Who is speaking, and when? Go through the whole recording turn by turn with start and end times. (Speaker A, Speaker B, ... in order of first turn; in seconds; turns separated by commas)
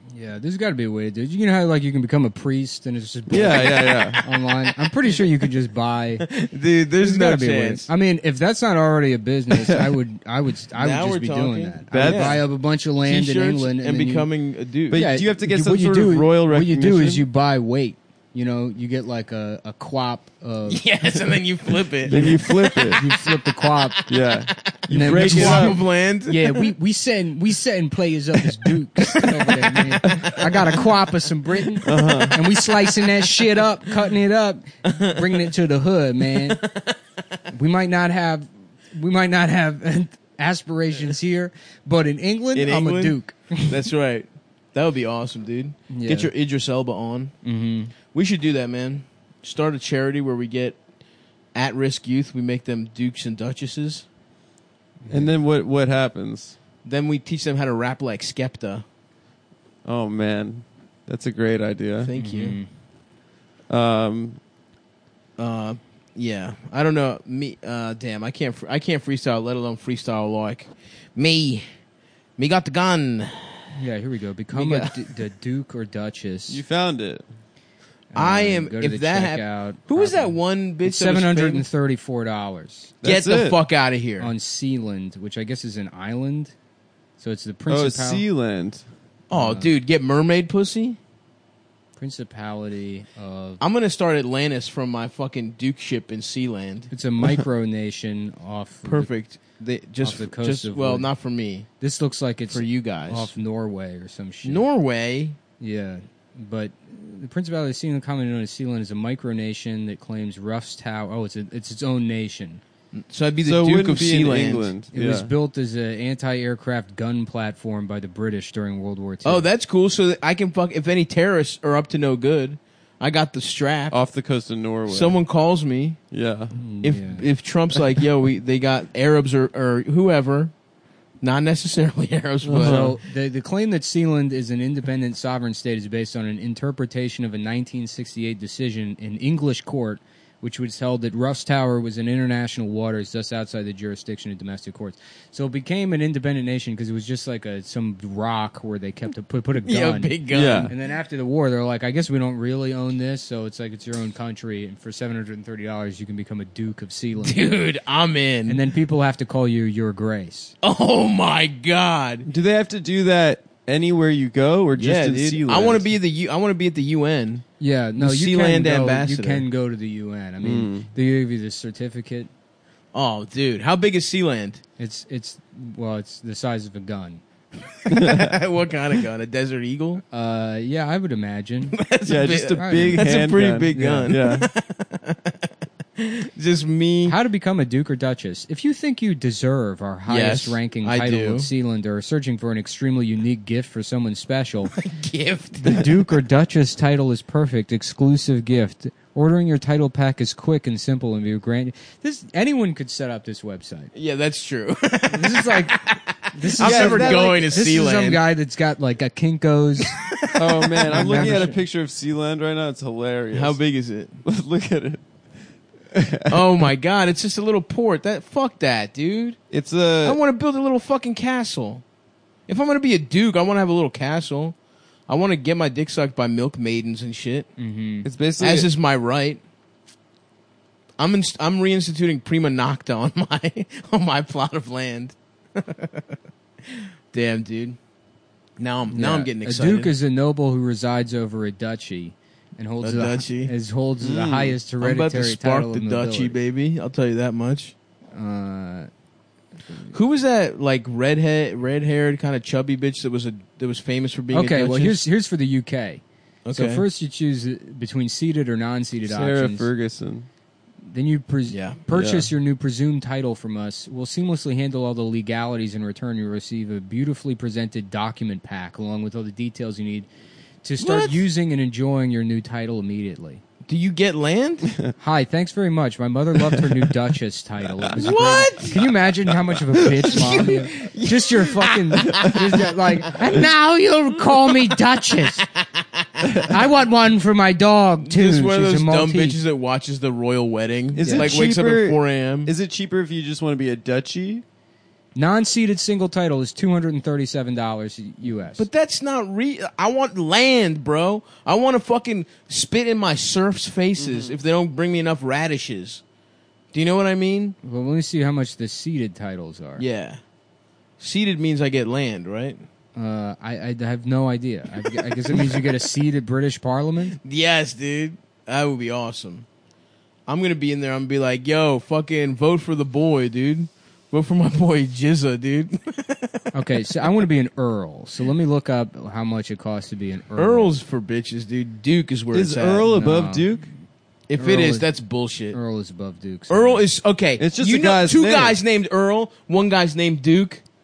Speaker A: 0.1-6.3, Speaker B: 3.3-4.2, Speaker C: 3.4-4.4, Speaker C: 6.2-7.9, Speaker A: 7.0-14.3, Speaker C: 10.8-12.4, Speaker B: 11.9-12.4, Speaker C: 13.0-15.0, Speaker B: 14.9-17.3, Speaker A: 14.9-20.8, Speaker C: 20.7-23.1, Speaker B: 22.1-23.1, Speaker A: 22.1-22.4, Speaker A: 22.9-24.0, Speaker C: 23.9-26.7, Speaker B: 24.1-25.8, Speaker A: 24.9-36.6, Speaker C: 28.7-30.8, Speaker B: 30.1-30.3, Speaker C: 31.8-33.3, Speaker B: 31.8-32.4, Speaker C: 34.9-35.4, Speaker C: 36.5-36.8, Speaker A: 37.5-43.7, Speaker C: 42.5-47.4, Speaker A: 45.9-46.3, Speaker A: 47.4-47.9, Speaker C: 48.1-50.8, Speaker C: 51.5-54.0, Speaker B: 55.1-56.6, Speaker C: 56.9-58.8, Speaker B: 59.8-62.1, Speaker C: 62.0-62.6, Speaker A: 62.2-62.7, Speaker B: 63.7-64.4, Speaker C: 65.4-71.6, Speaker C: 72.4-73.8, Speaker A: 73.7-76.6, Speaker C: 74.5-75.0, Speaker B: 76.5-77.2, Speaker A: 78.1-82.9, Speaker C: 78.2-81.7, Speaker B: 83.0-83.6, Speaker C: 83.0-84.3, Speaker A: 84.2-86.5, Speaker A: 87.2-88.3, Speaker B: 87.7-88.8, Speaker C: 89.3-91.0, Speaker A: 89.3-89.7, Speaker A: 92.0-93.6, Speaker C: 93.6-96.9, Speaker A: 96.9-99.1, Speaker C: 98.8-101.7, Speaker A: 100.0-101.1, Speaker A: 101.8-104.7, Speaker C: 102.5-103.3, Speaker C: 104.4-105.4, Speaker A: 105.6-112.6, Speaker C: 112.9-114.7, Speaker B: 113.4-115.3, Speaker A: 114.9-119.5, Speaker C: 119.2-124.0, Speaker B: 123.9-125.2, Speaker C: 124.9-126.0, Speaker B: 126.1-126.5, Speaker A: 126.5-127.2, Speaker C: 126.8-130.5, Speaker C: 131.2-133.0, Speaker B: 132.4-133.0, Speaker A: 132.6-150.2, Speaker C: 149.6-150.8, Speaker B: 150.3-150.7, Speaker A: 150.7-157.4, Speaker C: 157.2-158.6, Speaker A: 158.5-160.5, Speaker C: 160.6-162.3, Speaker B: 162.3-165.9, Speaker C: 164.8-167.4, Speaker A: 167.6-172.3, Speaker C: 168.0-169.5, Speaker B: 170.4-170.9, Speaker C: 172.9-174.6, Speaker A: 174.8-177.2, Speaker C: 177.9-180.0, Speaker B: 177.9-178.4, Speaker A: 180.1-181.8, Speaker C: 181.7-185.4, Speaker B: 182.1-184.5, Speaker A: 182.6-183.1, Speaker A: 183.7-184.1, Speaker C: 186.0-187.2, Speaker A: 187.1-194.7, Speaker C: 190.1-191.5, Speaker C: 194.7-195.7, Speaker A: 195.6-203.9, Speaker C: 203.9-208.2, Speaker A: 205.1-210.0, Speaker B: 206.6-207.5, Speaker C: 209.9-211.5, Speaker B: 210.4-213.6, Speaker A: 210.9-211.6, Speaker C: 213.3-214.2, Speaker B: 214.2-215.0, Speaker B: 215.9-216.5, Speaker C: 216.3-219.4, Speaker B: 219.5-220.2, Speaker C: 220.0-221.8, Speaker C: 222.5-224.6, Speaker C: 225.1-227.5, Speaker A: 227.6-228.1, Speaker B: 228.1-228.7, Speaker C: 228.4-229.4, Speaker C: 231.0-236.1, Speaker C: 236.7-237.8, Speaker C: 238.6-239.9, Speaker A: 238.9-246.4, Speaker C: 242.8-243.5, Speaker B: 244.0-244.6, Speaker C: 244.8-247.8, Speaker A: 248.2-248.9, Speaker C: 249.9-255.0, Speaker A: 254.3-259.7, Speaker C: 256.5-256.9, Speaker B: 259.1-260.3, Speaker A: 260.9-270.1, Speaker C: 261.5-261.8, Speaker B: 261.9-262.3, Speaker A: 270.6-273.4, Speaker C: 270.8-271.3, Speaker C: 273.7-274.7, Speaker A: 275.0-285.5, Speaker C: 278.0-278.9, Speaker C: 279.8-282.4, Speaker C: 284.3-284.6, Speaker C: 285.4-286.5, Speaker A: 286.5-289.4, Speaker C: 288.0-292.5, Speaker B: 290.9-294.4, Speaker A: 291.0-291.4, Speaker A: 295.2-298.7, Speaker C: 298.6-306.0, Speaker B: 304.0-304.4, Speaker C: 306.7-307.6, Speaker A: 307.6-309.9, Speaker C: 309.8-310.2, Speaker C: 311.0-312.6, Speaker A: 313.0-317.2, Speaker C: 315.3-315.7, Speaker C: 317.2-319.5, Speaker C: 320.3-326.4, Speaker A: 326.5-330.7, Speaker C: 330.4-332.9, Speaker B: 332.3-333.7, Speaker A: 332.9-333.6, Speaker C: 334.3-335.6, Speaker A: 334.4-334.9, Speaker A: 335.5-336.9, Speaker C: 336.5-340.6, Speaker B: 337.4-338.6